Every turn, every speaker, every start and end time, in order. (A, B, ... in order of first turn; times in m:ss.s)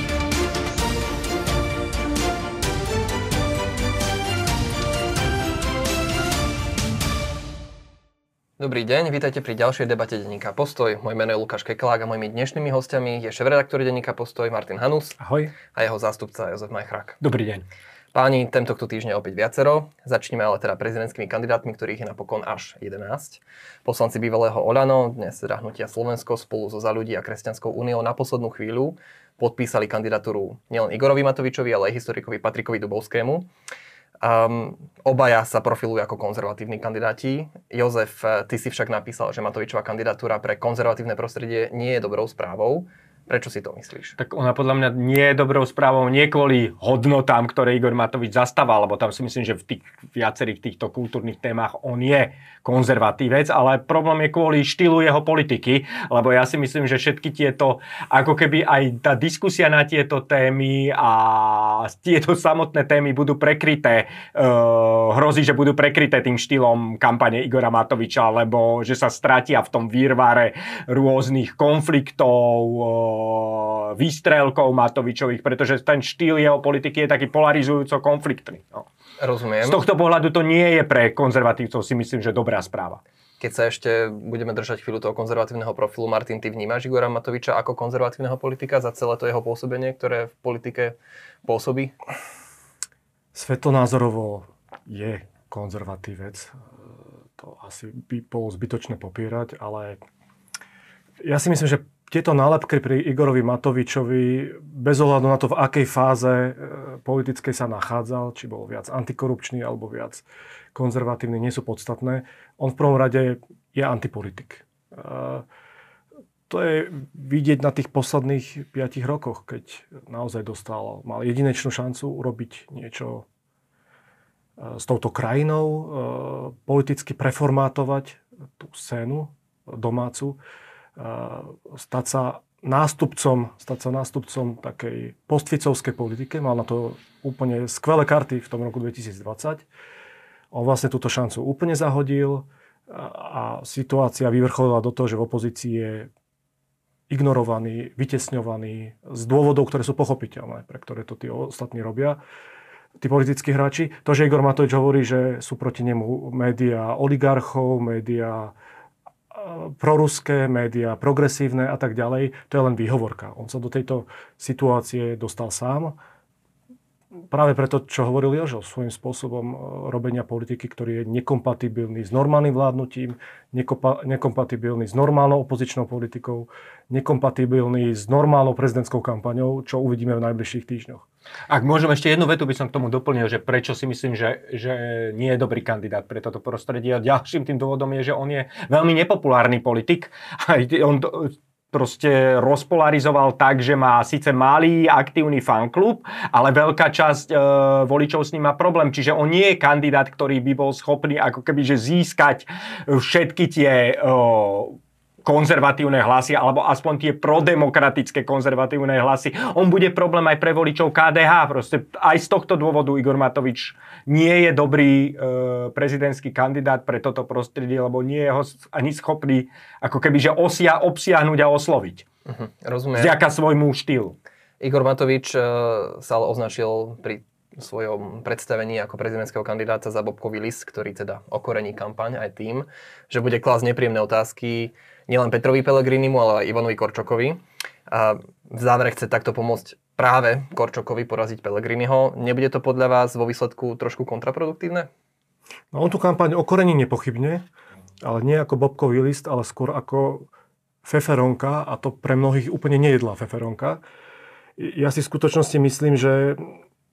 0:08.6-0:17.2 A
0:17.2-0:17.6 B
0:18.1-0:33.5 A
0:34.2-0:44.2 A
0:44.2-1:18.9 B
1:19.2-1:19.8 A
1:19.6-1:23.0 B
1:23.4-1:32.0 A
1:33.3-1:36.6 C
1:37.4-1:40.0 C
1:41.2-1:55.5 C
1:56.5-2:03.3 C
2:04.6-2:10.4 C
2:11.0-2:19.7 C
2:20.5-2:26.1 C
2:27.1-2:32.2 C
2:33.0-2:38.5 C
2:39.3-2:46.0 C
2:47.3-3:01.0 C
3:01.5-3:42.1 B
3:42.3-3:43.2 A
3:43.0-3:44.2 B
3:44.6-4:04.9 A
4:05.7-4:07.4 C
4:08.0-4:10.3 C
4:10.8-4:13.8 C
4:14.6-4:16.6 C